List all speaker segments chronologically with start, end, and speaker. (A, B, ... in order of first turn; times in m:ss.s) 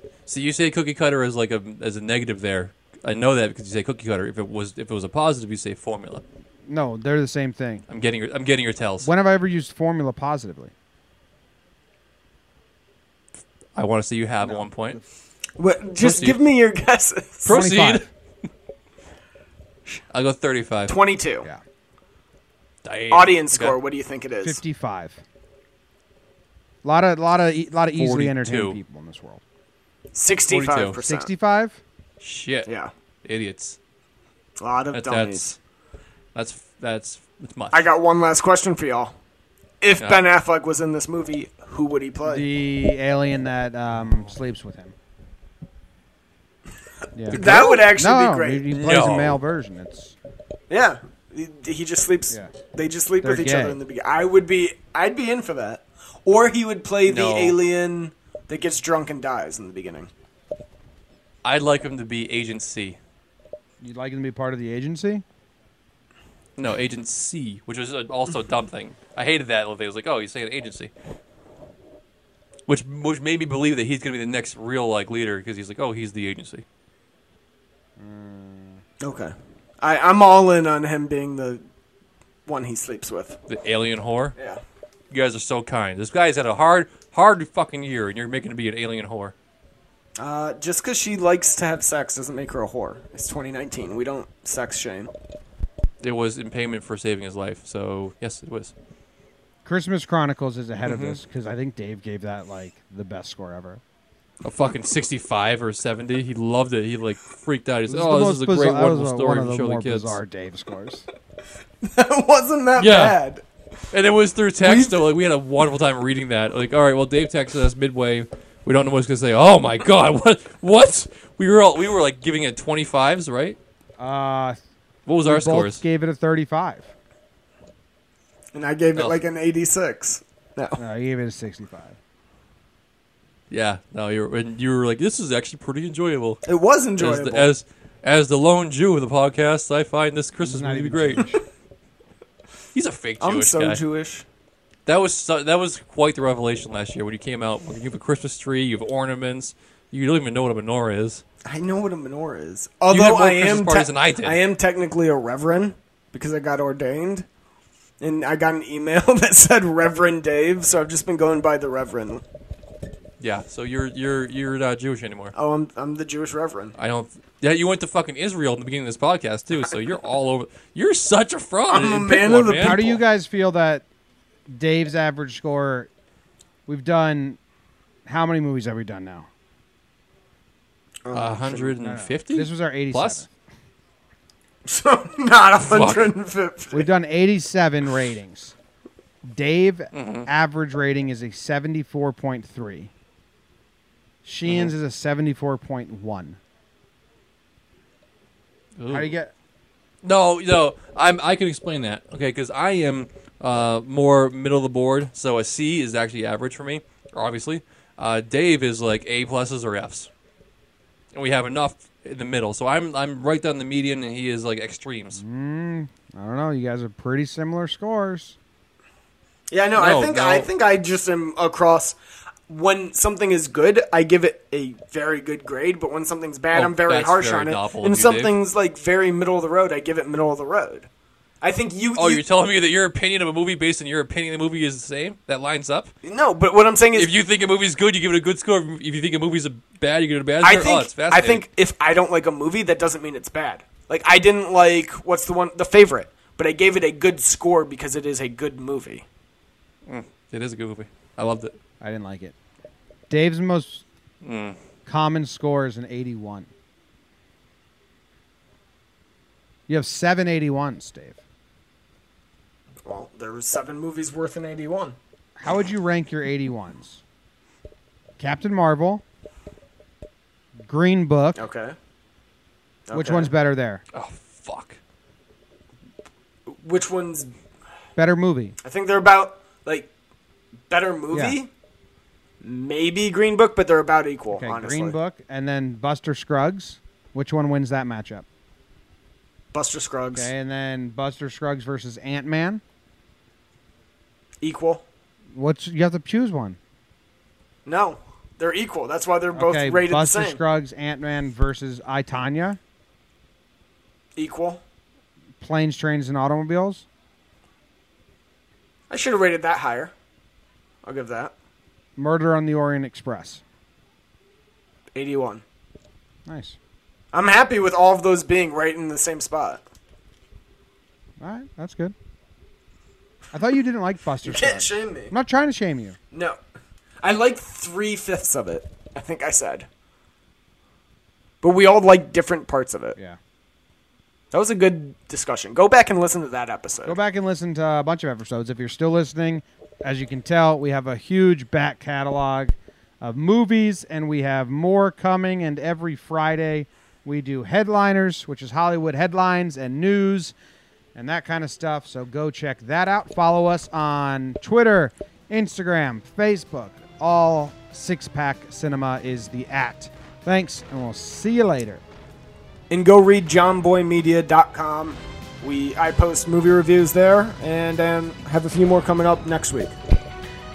0:00.3-0:06.2 A
0:06.7-0:07.8 B
0:07.9-0:09.1 A
0:09.0-0:10.7 B
0:13.7-0:15.0 A
0:14.4-0:15.0 B
0:15.6-0:17.5 C
0:16.0-0:16.4 A
0:17.4-0:18.1 A
0:17.5-0:18.1 B
0:20.1-0:21.0 A
0:20.9-0:21.5 C
0:22.8-0:23.8 A
0:23.1-0:24.6 C
0:24.4-0:25.2 B
0:26.8-0:29.4 B
0:27.9-0:28.8 A
0:30.1-0:31.3 C
0:30.5-0:31.0 A
0:31.0-0:31.8 B
0:32.2-0:32.7 A
0:32.6-0:32.9 C
0:33.2-0:33.8 A
0:34.6-0:35.4 C
0:34.9-0:35.6 A
0:36.3-0:37.8 A
0:37.7-0:39.1 C
0:39.8-0:42.4 C
0:40.0-0:40.2 A
0:42.2-0:44.9 B
0:47.1-0:50.1 B
0:47.3-0:47.8 A
0:47.3-0:48.7 C
0:48.8-0:49.4 A
0:50.7-1:00.1 C
0:53.2-0:53.8 B
0:57.0-0:57.6 A
1:01.4-1:03.0 A
1:03.8-1:05.2 B
1:06.6-1:10.9 A
1:12.7-1:16.6 A
1:18.0-1:18.8 B
1:19.0-1:21.6 C
1:22.4-1:23.4 C
1:23.5-1:24.3 A
1:24.4-1:24.6 C
1:25.1-1:29.3 A
1:30.2-1:35.1 C
1:36.0-1:38.7 A
1:39.6-1:43.8 B
1:40.8-1:41.2 A
1:44.4-1:50.2 A
1:47.9-1:51.1 B
1:51.8-1:53.4 C
1:52.8-1:53.2 A
1:53.9-2:03.6 A
1:54.6-1:55.0 C
2:04.0-2:04.6 B
2:05.0-2:05.8 A
2:05.2-2:06.9 B
2:08.5-2:10.8 C
2:10.8-2:12.0 B
2:13.5-2:16.4 A
2:16.5-2:17.5 C
2:17.0-2:21.3 A
2:20.4-2:21.4 B
2:22.7-2:23.8 A
2:23.2-2:24.2 C
2:24.8-2:31.2 A
2:31.4-2:37.2 C
2:32.9-2:34.4 A
2:38.0-2:42.2 C
2:43.2-2:45.3 A
2:45.3-2:46.7 C
2:46.8-2:52.9 A
2:51.7-2:52.9 C
2:52.6-2:53.8 B
2:54.5-2:55.9 B
2:56.7-2:57.4 B
2:58.0-2:59.3 B
3:01.0-3:01.8 C
3:01.1-3:03.2 A
3:01.8-3:03.3 B
3:04.6-3:06.9 C
3:05.6-3:06.1 A
3:06.7-3:08.5 B
3:09.2-3:12.9 B
3:09.9-3:10.3 A
3:14.2-3:16.4 B
3:14.4-3:14.7 A
3:18.8-3:19.1 A
3:18.9-3:19.3 B
3:20.0-3:30.1 A
3:31.1-3:35.2 A
3:35.1-3:38.4 B
3:39.5-3:42.0 C
3:39.8-3:40.5 A
3:42.5-3:50.9 C
3:46.5-3:48.3 A
3:51.4-3:52.2 C
3:52.0-3:55.9 A
3:56.0-3:57.1 C
3:56.9-4:01.4 A
4:00.4-4:09.0 C
4:09.9-4:11.6 A
4:11.8-4:12.3 B
4:13.1-4:13.8 B
4:14.2-4:14.6 A
4:14.8-4:16.5 B
4:19.7-4:21.2 B
4:22.8-4:25.0 C
4:25.4-4:27.0 B
4:28.2-4:29.0 B
4:30.6-4:31.5 B
4:31.4-4:31.8 C
4:32.9-4:33.3 C
4:32.9-4:33.8 B
4:33.9-4:34.8 A
4:36.4-4:37.3 C
4:38.0-4:38.6 B
4:38.6-4:39.9 C
4:40.7-4:41.5 C
4:41.1-4:41.4 B
4:42.4-4:45.0 C
4:44.3-4:48.2 B
4:49.5-4:50.3 C
4:50.1-4:52.6 B
4:54.4-4:54.8 C
4:55.3-4:56.6 B
4:57.6-5:00.4 C
4:59.3-5:02.6 B
5:04.2-5:04.6 C
5:05.4-5:06.8 B
5:08.9-5:09.9 C
5:10.8-5:11.3 C
5:12.0-5:13.4 B
5:14.9-5:15.4 C
5:16.2-5:16.6 B
5:17.1-5:19.6 C
5:21.2-5:21.9 B
5:23.3-5:26.0 B
5:24.2-5:25.1 C
5:26.1-5:26.4 C
5:27.0-5:29.7 C
5:31.4-5:33.0 C
5:34.3-5:37.0 C
5:36.8-5:50.3 B
5:50.9-6:01.8 B
6:02.7-6:09.8 C